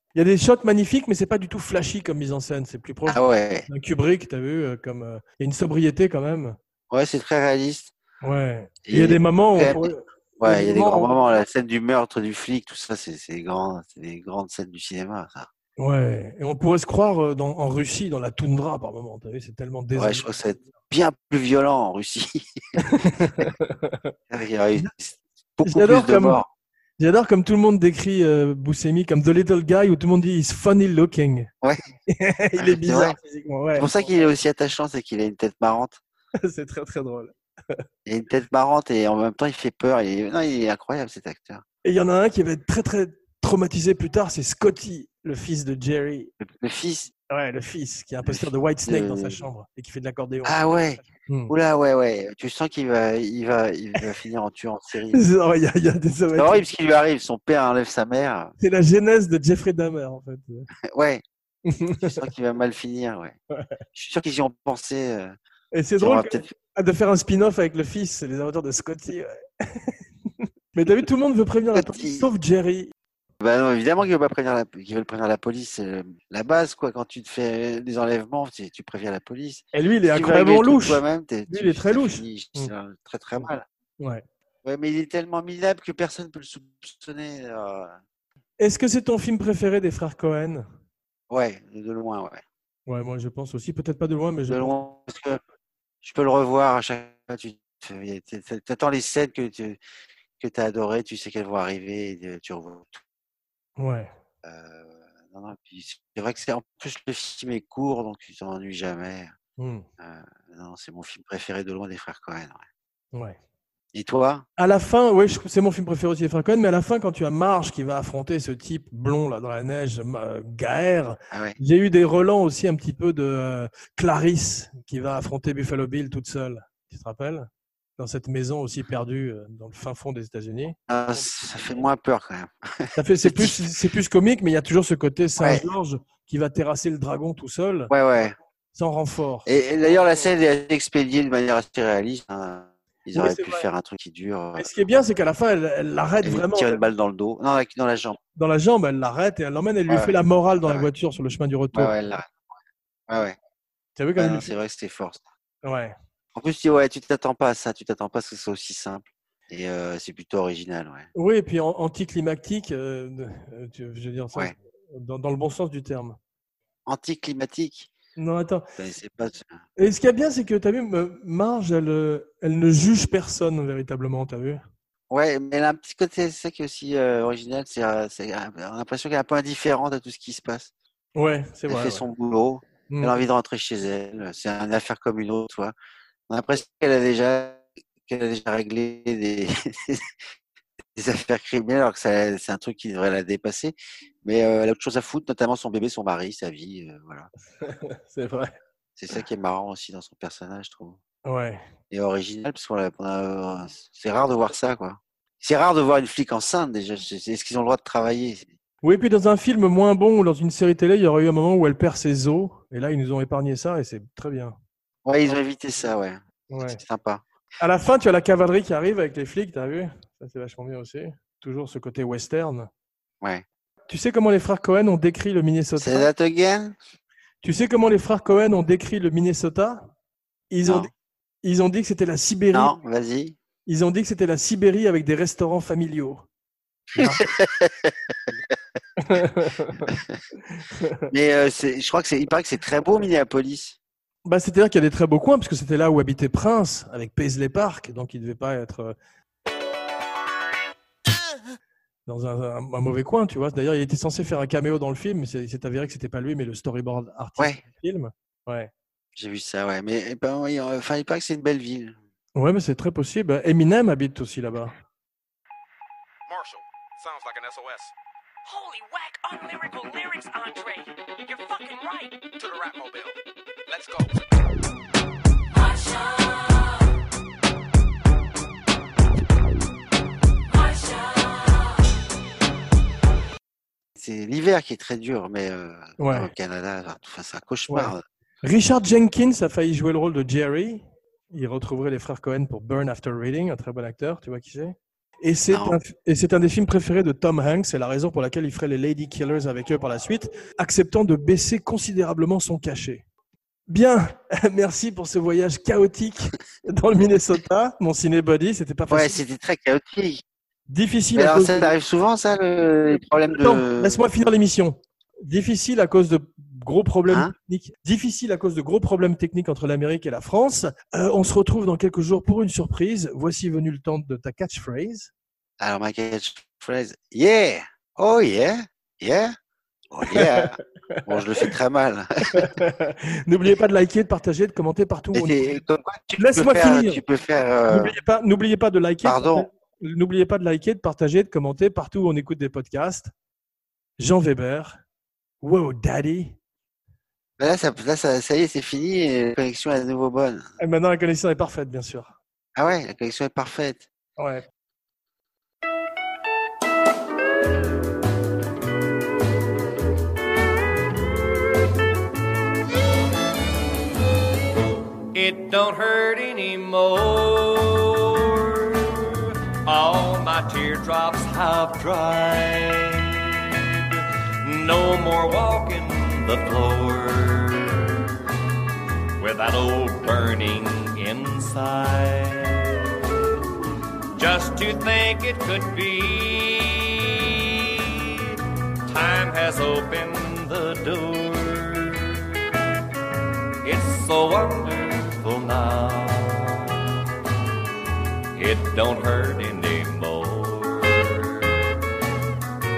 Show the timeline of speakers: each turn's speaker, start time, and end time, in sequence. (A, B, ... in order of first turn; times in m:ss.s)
0:00.1-0:06.6 A
0:03.1-0:03.7 B
0:06.9-0:07.9 B
0:08.2-0:11.1 A
0:08.8-0:09.9 B
0:10.4-0:15.5 B
0:15.8-0:20.4 A
0:20.0-0:22.8 B
0:22.8-0:24.1 A
0:24.3-0:26.5 B
0:25.6-0:26.4 A
0:27.0-0:31.5 A
0:32.1-0:34.2 A
0:32.6-0:33.2 B
0:33.8-0:36.0 B
0:36.4-0:37.8 A
0:38.0-0:41.6 B
0:41.8-0:46.3 A
0:46.4-0:47.1 B
0:47.3-0:50.6 A
0:48.2-0:49.5 B
0:50.4-0:55.2 B
0:51.3-0:51.5 A
0:55.1-0:56.6 A
0:56.4-0:58.5 B
0:58.6-1:00.7 A
1:00.9-1:01.2 B
1:01.7-1:02.1 A
1:02.0-1:03.3 B
1:03.5-1:03.8 A
1:03.9-1:05.4 B
1:05.7-1:10.0 A
1:06.0-1:06.5 B
1:10.7-1:12.9 A
1:11.7-1:12.3 B
1:13.4-1:23.6 B
1:19.7-1:22.7 A
1:24.6-1:28.0 B
1:28.6-1:30.7 A
1:31.3-1:32.4 B
1:32.9-1:34.8 A
1:34.5-1:35.4 B
1:36.0-1:39.8 B
1:40.4-1:43.0 B
1:43.8-1:44.1 A
1:44.4-1:49.3 B
1:49.6-1:49.9 A
1:50.0-1:52.6 B
1:53.9-1:54.4 B
1:54.6-2:11.3 A
2:01.3-2:01.6 B
2:10.9-2:13.6 B
2:13.0-2:17.9 A
2:15.4-2:15.6 B
2:17.9-2:18.3 B
2:18.7-2:20.2 A
2:19.4-2:24.7 B
2:23.1-2:23.7 A
2:24.6-2:26.8 A
2:26.2-2:28.2 B
2:28.4-2:31.9 A
2:29.9-2:30.9 B
2:31.7-2:32.4 B
2:33.1-2:33.4 B
2:34.0-2:34.5 A
2:34.2-2:35.2 B
2:35.6-2:35.9 A
2:36.3-2:41.1 B
2:41.1-2:46.2 A
2:46.8-2:47.9 B
2:48.2-2:48.7 A
2:48.8-2:49.6 B
2:49.8-2:54.6 A
2:55.1-3:00.7 B
3:01.2-3:02.0 A
3:01.7-3:05.7 B
3:02.9-3:03.2 A
3:06.3-3:10.1 B
3:10.9-3:17.3 B
3:17.6-3:18.5 A
3:19.0-3:21.0 B
3:21.2-3:21.6 A
3:21.9-3:28.5 B
3:28.8-3:34.6 A
3:35.0-3:37.2 B
3:36.5-3:36.8 A
3:37.6-3:42.7 A
3:43.9-3:46.1 A
3:45.8-3:46.8 B
3:47.4-3:49.9 A
3:50.5-3:50.9 A
3:50.6-3:50.9 B
3:51.4-3:52.7 A
3:52.5-3:53.4 B
3:53.6-3:56.2 A
3:56.9-3:57.2 A
3:57.0-3:57.9 B
3:59.0-3:59.9 A
3:59.9-4:00.1 B
4:00.5-4:01.0 A
4:01.1-4:03.8 B
4:04.2-4:09.0 A
4:12.1-4:18.7 A
4:19.1-4:22.0 B
4:22.4-4:24.7 A
4:26.3-4:27.9 C
4:28.5-4:32.1 D
4:32.4-4:34.1 C
4:44.0-4:48.0 B
4:46.0-4:46.3 A
4:47.7-5:03.0 A
4:55.5-4:55.8 B
5:03.7-5:09.2 A
5:08.9-5:10.2 B
5:10.7-5:11.7 A
5:11.1-5:14.0 B
5:13.4-5:25.1 A
5:17.1-5:17.3 B
5:25.6-5:29.3 B
5:29.9-5:32.5 B
5:30.0-5:31.5 A
5:32.3-5:35.4 A
5:35.1-5:37.9 B
5:36.2-5:37.0 A
5:37.7-5:43.1 A
5:39.0-5:39.5 B
5:44.0-5:44.8 A
5:45.4-5:46.3 A
5:47.4-5:50.5 B
5:50.6-5:52.1 A
5:52.6-5:53.9 B
5:54.2-5:54.4 A
6:05.1-6:18.1 E
6:19.2-6:22.8 E
6:24.2-6:27.9 E
6:28.9-6:32.2 E
6:33.6-6:36.9 E
6:38.4-6:41.8 E